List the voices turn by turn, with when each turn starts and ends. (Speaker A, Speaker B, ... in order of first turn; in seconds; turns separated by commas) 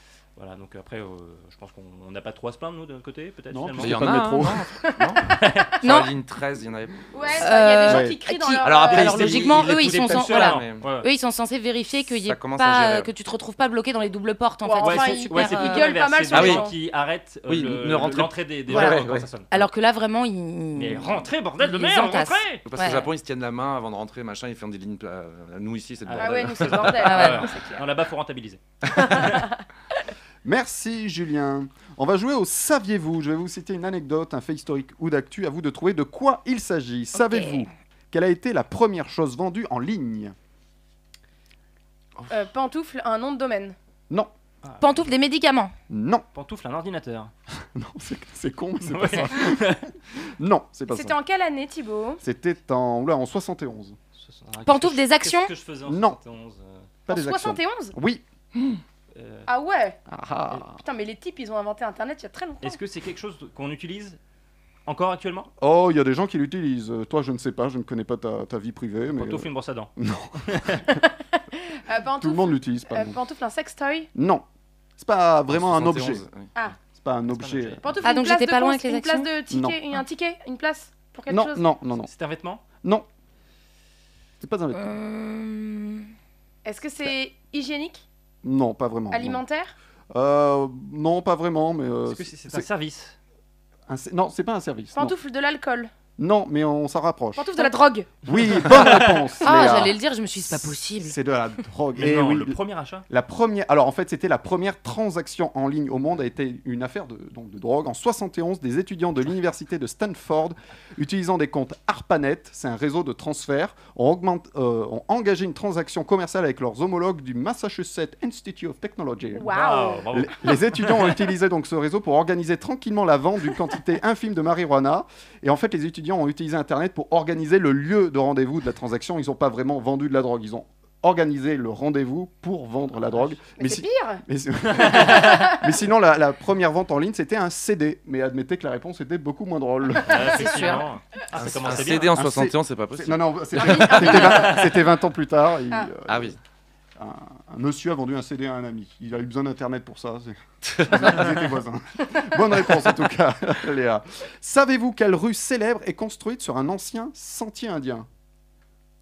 Speaker A: 0.4-4.2, Speaker B: 3.5-4.7, Speaker C: 3.8-7.0, Speaker A: 5.3-5.8, Speaker D: 5.8-6.1, Speaker E: 7.1-9.4, Speaker D: 7.4-15.9, Speaker B: 7.9-8.2, Speaker C: 8.6-10.9, Speaker A: 8.9-11.1, Speaker C: 12.2-13.1, Speaker E: 14.6-16.8, Speaker A: 14.8-19.5, Speaker C: 16.3-16.6, Speaker C: 17.5-19.3, Speaker D: 18.7-19.0, Speaker D: 19.5-23.1, Speaker A: 20.8-22.6, Speaker C: 22.6-27.1, Speaker A: 26.1-29.3, Speaker E: 26.2-27.8, Speaker D: 27.0-27.5, Speaker E: 29.1-29.5, Speaker B: 30.4-40.4, Speaker D: 37.1-37.7, Speaker E: 42.3-43.8, Speaker D: 44.8-45.7, Speaker B: 45.9-46.2, Speaker A: 46.3-47.3, Speaker B: 47.8-51.1, Speaker A: 48.8-49.9, Speaker E: 50.9-52.2, Speaker B: 52.2-54.0, Speaker A: 54.2-56.9, Speaker D: 54.6-55.5, Speaker B: 55.9-56.2, Speaker B: 57.1-58.2, Speaker E: 57.1-58.0, Speaker A: 59.1-59.5, Speaker E: 59.5-60.0, Speaker B: 60.1-60.8, Speaker E: 60.7-62.8, Speaker A: 62.6-64.2, Speaker A: 64.9-65.5, Speaker B: 65.6-71.0, Speaker A: 69.1-69.9, Speaker A: 70.4-70.8, Speaker E: 71.0-74.1, Speaker B: 72.2-73.2, Speaker B: 74.2-74.4, Speaker B: 75.0-76.2, Speaker C: 75.5-76.5, Speaker B: 77.0-77.8, Speaker A: 77.3-78.0, Speaker E: 77.8-81.6, Speaker D: 78.0-79.3, Speaker B: 79.5-79.8, Speaker B: 81.3-82.1, Speaker A: 82.1-82.6, Speaker B: 84.4-84.9, Speaker D: 84.8-86.1, Speaker E: 86.7-88.0, Speaker B: 88.4-89.4, Speaker E: 89.1-89.8, Speaker B: 90.1-92.7, Speaker A: 92.1-93.2, Speaker B: 93.9-95.2, Speaker E: 95.0-95.9, Speaker B: 96.2-97.5, Speaker E: 97.4-98.1, Speaker B: 98.2-100.0, Speaker A: 98.7-99.2, Speaker D: 99.4-101.2, Speaker B: 100.5-119.6, Speaker A: 102.0-103.0, Speaker E: 119.4-120.1, Speaker A: 119.5-121.2, Speaker B: 120.1-140.8, Speaker E: 133.6-134.2, Speaker E: 134.8-135.6, Speaker A: 140.1-142.1, Speaker D: 140.3-140.8, Speaker C: 141.4-143.8, Speaker B: 141.5-146.4, Speaker E: 143.6-144.8, Speaker A: 144.0-144.5, Speaker C: 146.1-146.4, Speaker B: 147.0-158.1, Speaker C: 150.6-151.4